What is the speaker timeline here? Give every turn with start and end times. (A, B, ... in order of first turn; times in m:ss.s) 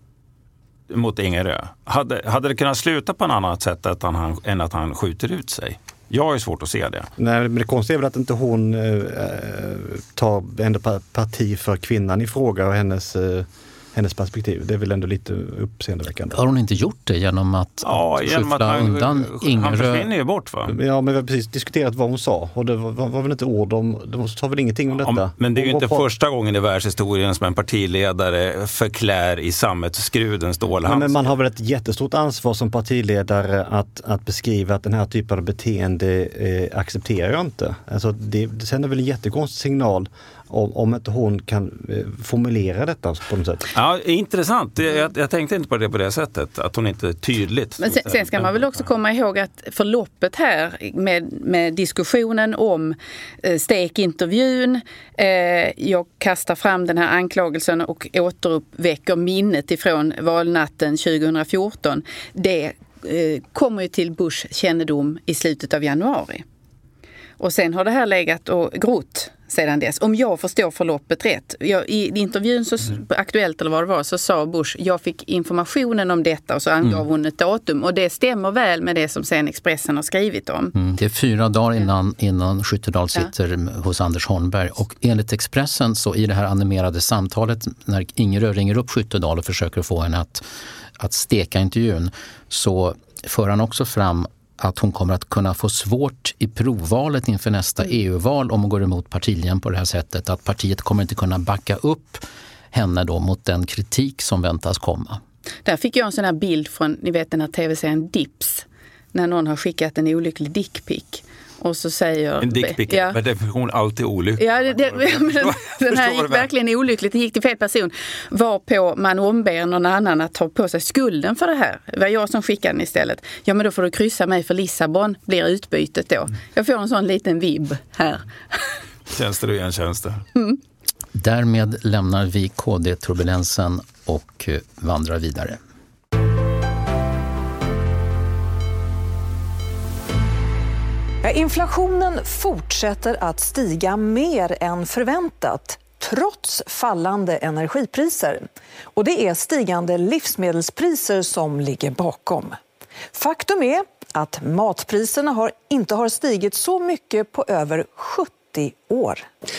0:00.9-0:07.1 A
0:07.2-0:16.4 B
0:16.3-0:20.1 C
0:17.8-0:20.8 A
0:20.7-0:26.0 B
0:25.0-0:31.3 A
0:30.8-0:43.7 B
0:43.7-0:48.8 A
0:47.8-1:06.4 D
1:07.4-1:20.7 D
1:20.8-1:30.4 C
1:31.0-1:45.2 C
1:45.6-1:53.2 D
1:52.4-1:56.5 A
1:54.4-2:08.8 D
2:09.1-2:10.2 A
2:11.1-2:15.6 C
2:21.2-2:32.6 E
2:33.1-2:39.3 E